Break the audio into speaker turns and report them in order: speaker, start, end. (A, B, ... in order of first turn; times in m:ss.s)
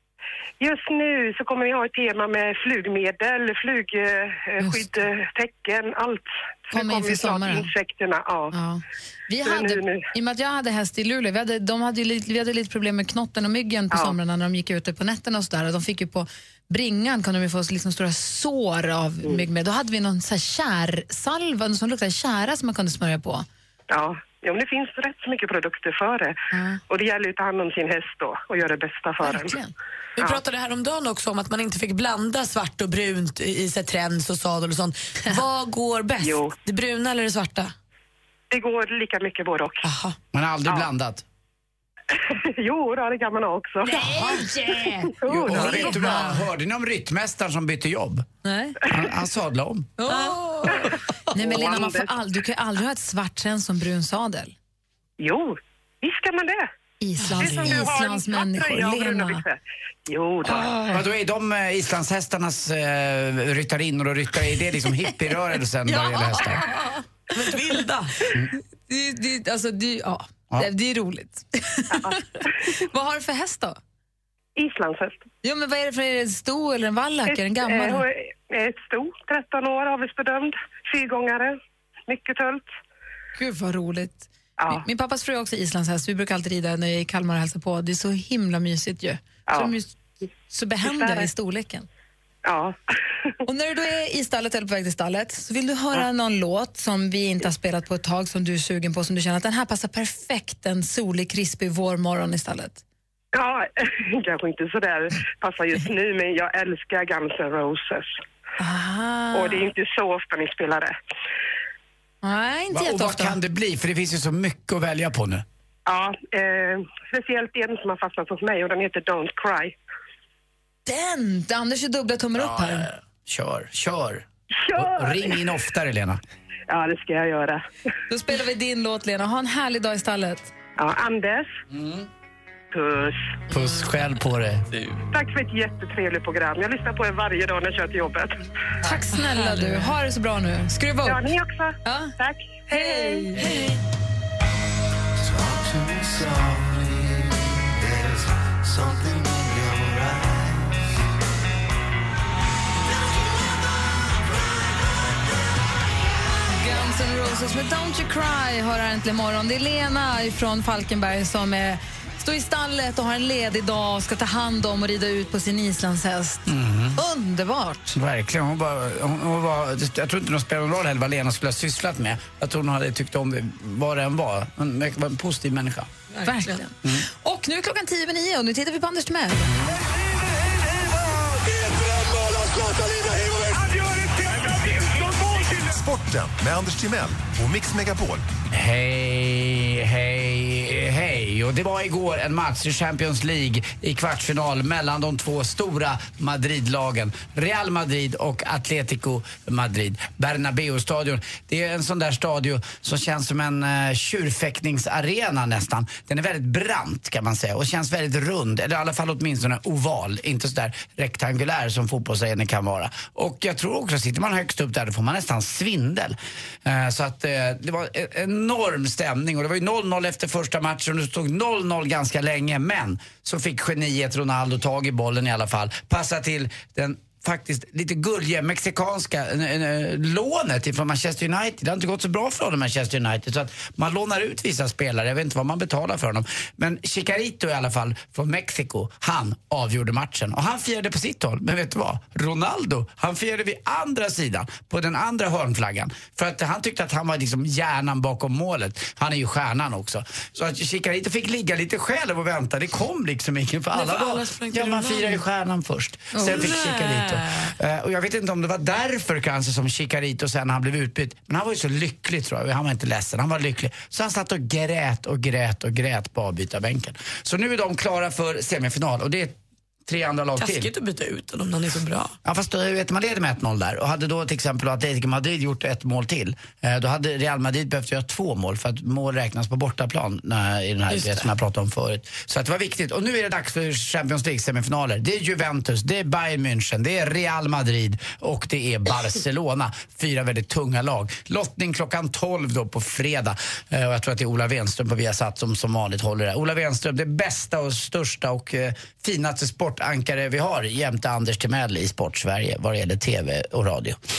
0:00.6-0:08.6 A
0:04.6-0:04.9 B
0:06.7-0:07.7 B
0:08.5-0:23.5 B
0:09.4-0:10.1 A
0:23.9-0:26.4 A
0:26.5-0:26.8 B
0:26.9-0:29.6 A
0:29.2-0:29.7 B
0:30.2-0:37.7 C
0:36.2-0:36.5 A
0:38.5-0:39.8 A
0:39.8-0:40.2 C
0:40.3-0:41.2 D
0:42.1-0:44.2 A
0:43.8-0:46.5 B
0:44.1-0:44.5 C
0:45.1-0:46.0 A
0:45.2-0:48.3 D
0:48.4-0:48.8 B
0:48.9-0:50.0 D
0:50.0-0:54.5 B
0:50.1-0:50.4 C
0:51.4-0:52.2 A
0:55.2-0:56.7 A
0:57.0-0:59.4 B
0:57.3-1:00.7 A
1:00.5-1:00.9 B
1:00.9-1:06.6 D
1:05.9-1:06.6 C
1:06.4-1:06.7 B
1:07.3-1:08.2 C
1:08.9-1:13.8 B
1:11.9-1:12.2 A
1:14.6-1:15.2 A
1:15.4-1:18.1 B
1:17.3-1:22.7 A
1:23.4-1:29.9 B
1:24.6-1:24.8 A
1:29.5-1:29.8 A
1:30.5-1:31.9 B
1:30.8-1:31.3 A
1:32.4-1:32.8 A
1:33.5-1:42.8 B
1:43.3-1:48.1 A
1:48.6-1:49.7 B
1:49.3-1:51.0 A
1:52.2-1:53.4 B
1:52.7-1:55.4 D
1:55.9-1:59.7 A
2:00.9-2:02.9 B
2:02.4-2:06.2 D
2:04.7-2:05.4 A
2:06.7-2:07.6 A
2:08.1-2:10.5 B
2:10.8-2:11.5 A
2:11.7-2:12.1 D
2:12.7-2:13.3 A
2:13.5-2:14.7 D
2:15.1-2:18.4 A
2:18.8-2:21.2 B
2:19.1-2:19.9 C
2:21.0-2:23.3 A
2:21.8-2:22.1 B
2:22.7-2:23.4 B
2:23.4-2:23.8 C
2:36.6-2:48.0 B
2:46.5-2:47.0 D
2:48.0-2:55.9 D
2:56.1-2:56.6 C
2:56.2-2:59.5 B
3:01.9-3:03.3 E
3:05.7-3:08.2 E
3:08.5-4:30.7 D
4:13.7-4:15.2 C
4:16.1-4:16.4 B
4:16.2-4:17.5 C
4:30.4-4:32.2 C
4:32.2-5:04.0 D
4:40.9-4:41.3 C